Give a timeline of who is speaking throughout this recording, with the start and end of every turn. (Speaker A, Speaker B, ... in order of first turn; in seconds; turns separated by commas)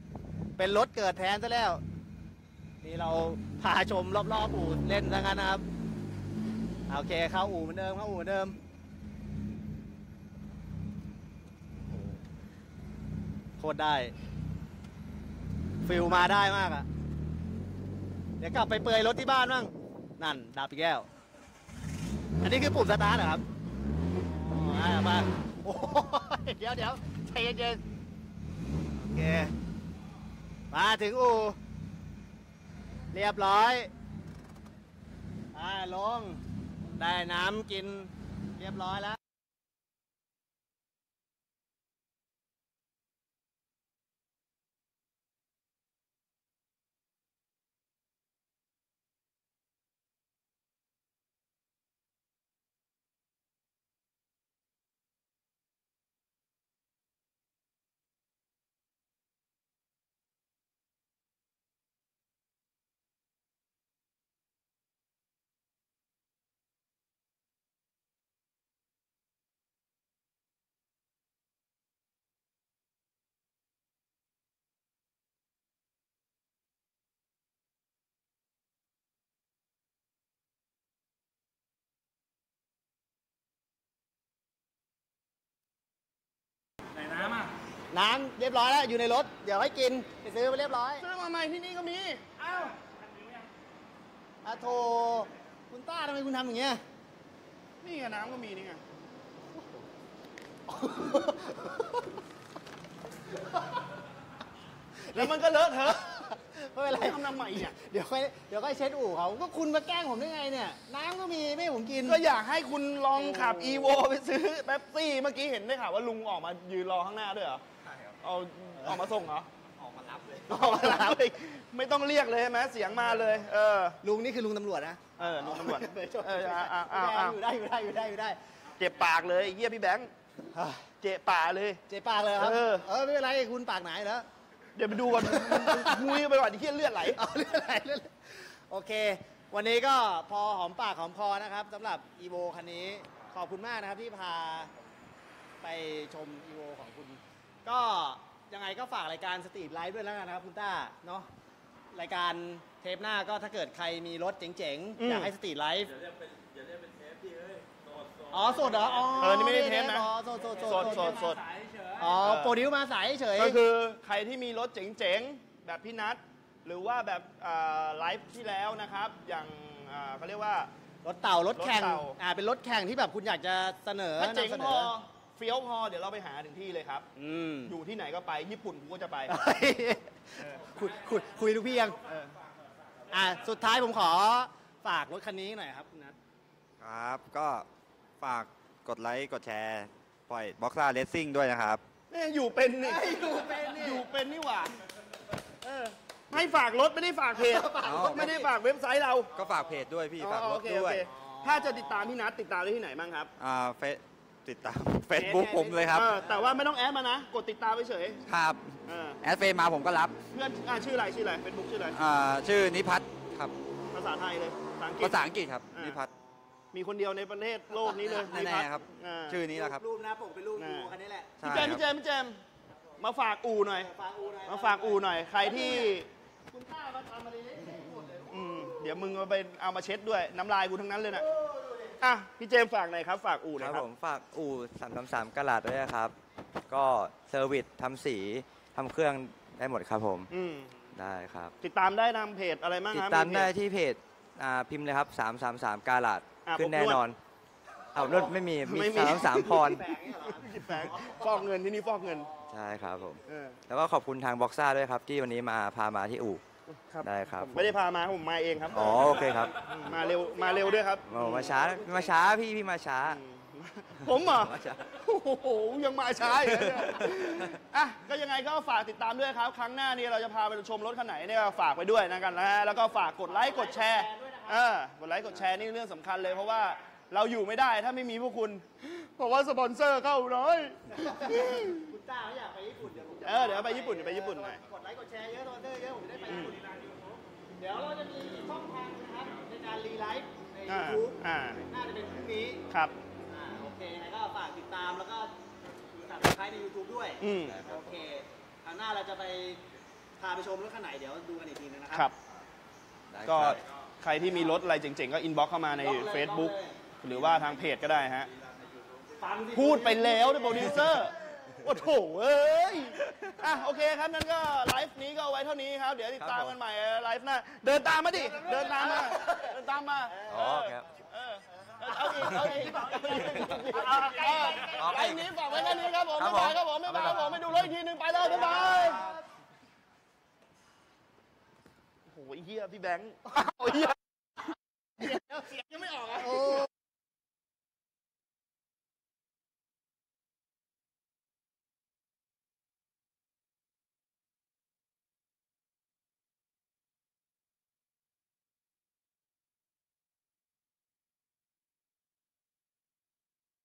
Speaker A: 0.6-1.8, Speaker A: 2.8-5.6, Speaker A: 6.9-8.6, Speaker A: 13.6-14.1, Speaker A: 15.8-16.9, Speaker A: 18.4-21.1, Speaker A: 22.4-23.4, Speaker A: 24.2-27.8, Speaker A: 29.0-29.5, Speaker A: 30.7-31.6, Speaker A: 33.1-33.9, Speaker A: 35.5-36.4, Speaker A: 37.0-39.2, Speaker A: 87.9-91.0, Speaker B: 91.0-92.4, Speaker A: 94.4-96.8, Speaker B: 97.8-98.8, Speaker A: 100.7-102.2, Speaker A: 103.5-103.8, Speaker A: 105.0-112.2, Speaker B: 105.1-106.0, Speaker B: 106.9-107.8, Speaker B: 112.0-117.6, Speaker A: 113.1-114.0, Speaker C: 117.8-118.2, Speaker B: 118.2-119.5, Speaker C: 119.8-120.7, Speaker A: 120.5-121.2, Speaker B: 120.5-124.0, Speaker A: 124.0-128.4, Speaker B: 125.2-127.4, Speaker B: 128.8-130.1, Speaker A: 130.5-130.8, Speaker B: 131.0-131.8, Speaker A: 131.9-134.2, Speaker B: 132.4-132.8, Speaker B: 134.8-137.2, Speaker A: 135.1-136.2, Speaker A: 137.1-144.7, Speaker A: 145.6-151.3, Speaker A: 151.9-155.9, Speaker B: 155.0-155.3, Speaker D: 156.2-159.4, Speaker A: 158.3-161.3, Speaker B: 159.1-160.1, Speaker D: 160.4-162.0, Speaker B: 160.6-161.4, Speaker A: 162.0-163.6, Speaker B: 162.1-162.7, Speaker B: 163.3-170.7, Speaker A: 171.0-174.9, Speaker B: 171.6-172.2, Speaker B: 174.2-177.1, Speaker A: 177.2-177.8, Speaker B: 177.7-179.3, Speaker A: 179.3-182.0, Speaker B: 182.1-182.3, Speaker A: 183.1-186.2, Speaker C: 186.8-187.7, Speaker C: 188.2-191.8, Speaker B: 192.1-194.8, Speaker A: 192.8-194.1, Speaker A: 195.7-195.9, Speaker B: 196.3-199.3, Speaker A: 197.3-198.5, Speaker C: 197.8-198.3, Speaker C: 199.3-201.1, Speaker B: 200.2-203.3, Speaker A: 201.1-202.1, Speaker C: 203.4-206.1, Speaker A: 205.1-206.6, Speaker B: 205.9-208.2, Speaker C: 208.3-210.2, Speaker B: 208.8-209.2, Speaker B: 210.3-211.9, Speaker C: 211.9-213.5, Speaker B: 213.9-215.2, Speaker C: 215.0-216.1, Speaker B: 216.7-219.4, Speaker C: 218.0-219.8, Speaker A: 219.5-221.7, Speaker B: 220.6-220.9, Speaker C: 221.4-221.8, Speaker B: 221.4-222.4, Speaker B: 223.0-223.9, Speaker A: 223.7-226.0, Speaker B: 224.4-226.1, Speaker A: 226.5-229.2, Speaker B: 228.3-231.2, Speaker A: 231.1-232.0, Speaker B: 232.0-233.8, Speaker E: 233.6-236.1, Speaker E: 236.7-240.3, Speaker B: 240.3-240.7, Speaker E: 240.9-241.5, Speaker B: 241.6-243.5, Speaker E: 242.9-247.2, Speaker B: 246.4-247.0, Speaker E: 247.9-249.8, Speaker A: 248.0-248.2, Speaker B: 248.0-249.7, Speaker A: 249.4-251.5, Speaker B: 250.3-252.3, Speaker A: 252.0-252.5, Speaker E: 252.5-256.4, Speaker B: 253.3-253.6, Speaker B: 256.9-262.3, Speaker E: 257.0-257.7, Speaker E: 258.7-259.9, Speaker D: 259.6-259.9, Speaker A: 259.8-260.9, Speaker E: 261.0-263.2, Speaker B: 263.0-281.9, Speaker E: 264.0-264.8, Speaker E: 266.3-267.5, Speaker A: 273.2-274.6, Speaker A: 280.9-286.6, Speaker B: 283.2-284.6, Speaker B: 286.3-286.6, Speaker D: 286.3-287.2, Speaker A: 287.6-292.6, Speaker B: 290.7-291.6, Speaker A: 293.3-295.3, Speaker A: 296.0-299.6, Speaker B: 297.2-297.6, Speaker E: 297.3-298.0, Speaker A: 300.2-302.1, Speaker E: 303.1-303.6, Speaker B: 303.2-308.3, Speaker A: 305.7-306.8, Speaker A: 309.2-311.1, Speaker B: 309.5-329.1, Speaker E: 313.0-313.3, Speaker E: 316.2-316.6, Speaker A: 318.1-319.5, Speaker A: 320.1-320.6, Speaker E: 320.3-320.8, Speaker E: 322.1-323.6, Speaker A: 322.2-324.8, Speaker E: 324.5-325.5, Speaker E: 326.1-327.5, Speaker A: 328.2-329.2, Speaker B: 332.1-333.9, Speaker A: 335.0-336.7